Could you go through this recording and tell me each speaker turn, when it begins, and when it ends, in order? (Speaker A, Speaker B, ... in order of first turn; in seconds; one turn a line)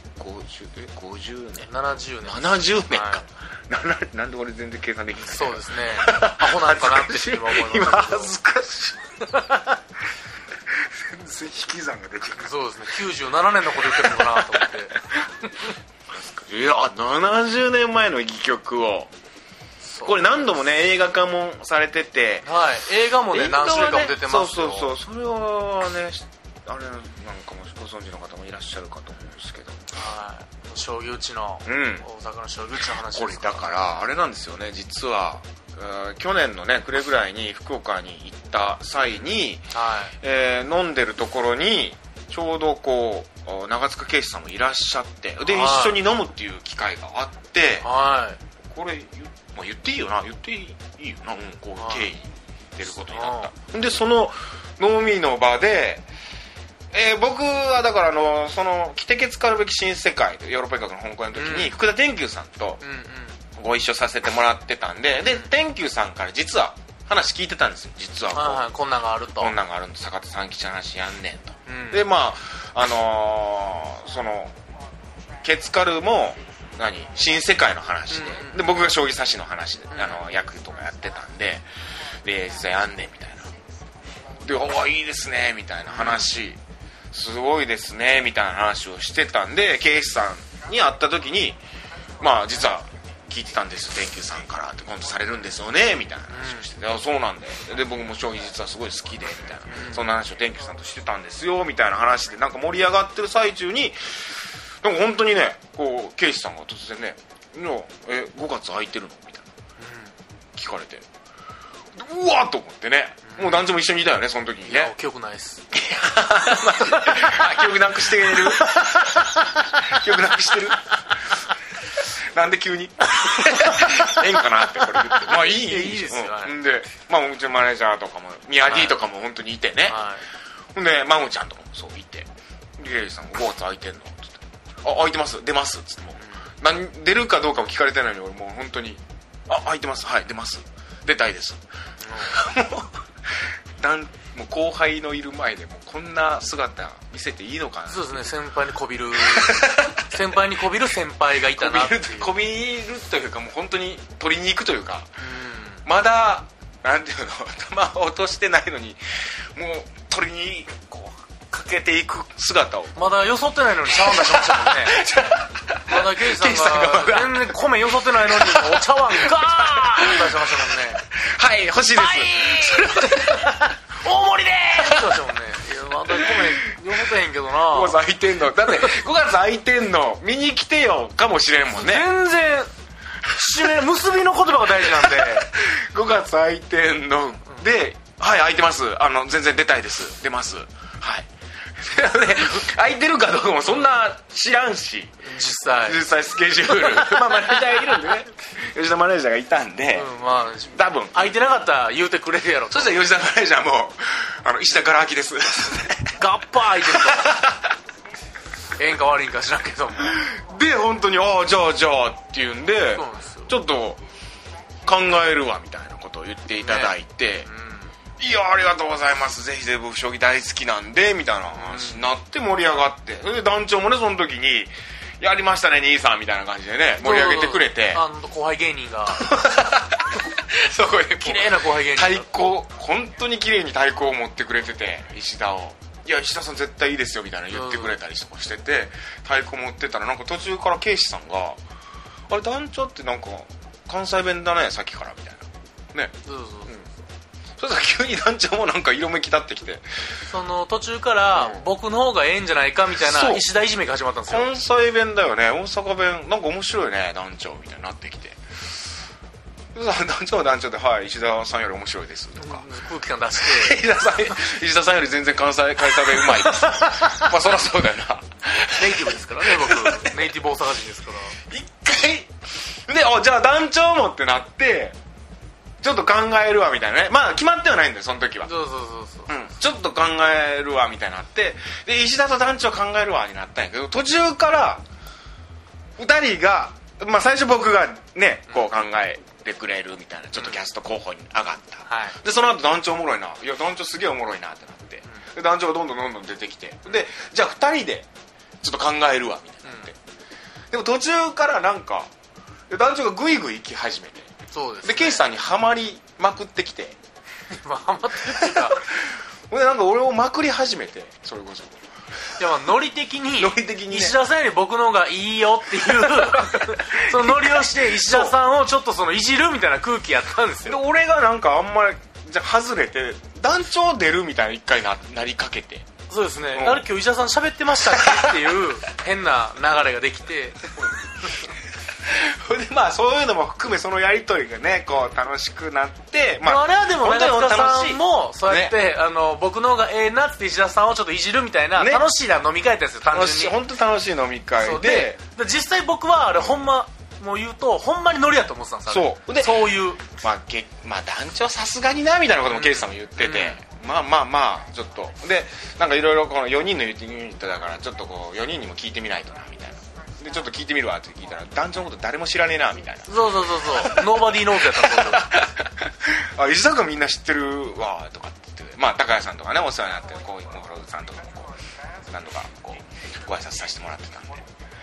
Speaker A: 0.2-1.7
Speaker B: 1.6-3.2
Speaker A: 2.2-9.1
Speaker B: 5.2-8.3
Speaker B: 9.2-9.8
Speaker A: 10.7-12.5
Speaker B: 12.4-14.9
Speaker A: 14.0-14.7
Speaker A: 16.1-19.1
Speaker B: 19.8-20.5
Speaker A: 20.0-22.5
Speaker B: 22.4-24.9
Speaker A: 23.3-29.8
Speaker B: 29.9-33.7
Speaker A: 31.7-32.0
Speaker A: 33.1-39.7
Speaker B: 39.7-40.1
Speaker A: 40.2-47.9
Speaker B: 45.5-46.0
Speaker B: 47.8-48.4
Speaker A: 48.7-56.1
Speaker B: 51.8-52.1
Speaker B: 52.9-53.5
Speaker A: 56.9-62.8
Speaker B: 61.4-61.8
Speaker B: 62.8-63.4
Speaker A: 63.5-68.7
Speaker B: 65.2-65.5
Speaker B: 68.3-69.6
Speaker A: 69.4-74.5
Speaker B: 71.7-72.1
Speaker A: 75.4-81.7
Speaker B: 78.1-78.7
Speaker B: 79.9-80.2
Speaker A: 82.2-83.5
Speaker A: 84.4-86.6
Speaker B: 85.9-86.3
Speaker A: 87.1-91.6
Speaker A: 92.2-109.5
Speaker B: 96.3-96.7
Speaker B: 99.7-100.1
Speaker B: 109.8-110.1
Speaker A: 110.5-111.1
Speaker A: 112.0-114.9
Speaker B: 113.3-113.7
Speaker B: 114.6-115.7
Speaker A: 115.7-121.0
Speaker B: 116.5-117.5
Speaker B: 118.2-119.7
Speaker A: 122.1-130.0
Speaker B: 123.2-126.6
Speaker B: 128.7-129.0
Speaker B: 129.9-130.2
Speaker A: 130.8-141.6
Speaker B: 142.0-142.4
Speaker A: 142.2-143.0
Speaker A: 143.8-148.2
Speaker B: 147.9-152.3
Speaker A: 149.2-150.1
Speaker A: 151.5-155.1
Speaker B: 155.2-155.8
Speaker A: 155.8-159.0
Speaker A: 159.6-163.2
Speaker B: 163.0-165.1
Speaker A: 163.9-173.6
Speaker B: 165.9-171.0
Speaker B: 171.9-178.0
Speaker A: 174.7-175.2
Speaker A: 176.1-176.8
Speaker A: 177.7-182.1
Speaker B: 178.6-178.9
Speaker B: 181.7-182.7
Speaker B: 183.3-185.5
Speaker A: 184.8-195.2
Speaker B: 195.2-196.0
Speaker A: 195.8-200.1
Speaker B: 196.6-198.0
Speaker B: 199.9-203.0
Speaker A: 200.7-201.3
Speaker A: 202.7-206.2
Speaker B: 206.2-207.4
Speaker A: 206.8-207.7
Speaker B: 208.8-210.2
Speaker A: 210.0-214.0
Speaker B: 212.9-213.5
Speaker A: 214.8-217.5
Speaker B: 216.6-216.9
Speaker B: 217.5-217.9
Speaker A: 218.2-228.0
Speaker B: 221.5-222.1
Speaker B: 227.0-229.4
Speaker A: 229.1-241.6
Speaker B: 231.2-232.5
Speaker B: 237.5-238.0
Speaker A: 242.3-246.1
Speaker B: 246.3-246.7
Speaker A: 247.6-250.2
Speaker B: 250.3-254.5
Speaker A: 251.3-251.7
Speaker A: 253.0-253.4
Speaker A: 254.3-258.4
Speaker A: 259.8-262.6
Speaker B: 262.4-263.8
Speaker A: 263.4-270.2
Speaker B: 266.0-267.3
Speaker B: 268.8-271.4
Speaker A: 271.5-275.0
Speaker A: 275.8-278.5
Speaker B: 278.4-279.3
Speaker A: 279.3-284.8
Speaker A: 286.0-298.1
Speaker B: 291.9-292.2
Speaker A: 298.6-300.0
Speaker B: 299.6-299.9
Speaker A: 300.7-302.1
Speaker A: 302.7-307.0
Speaker B: 304.5-305.2
Speaker B: 307.5-308.8
Speaker A: 308.3-311.8
Speaker B: 312.4-320.8
Speaker A: 313.4-314.2
Speaker A: 315.9-318.3
Speaker A: 320.7-325.9
Speaker B: 326.1-330.7
Speaker A: 326.5-326.9
Speaker A: 327.9-328.4
Speaker A: 332.1-338.8
Speaker B: 336.4-343.6
Speaker A: 341.8-342.1
Speaker A: 343.1-345.2
Speaker B: 344.6-350.0
Speaker A: 348.9-371.5
Speaker B: 352.5-353.6
Speaker B: 363.1-365.3
Speaker A: 372.1-374.4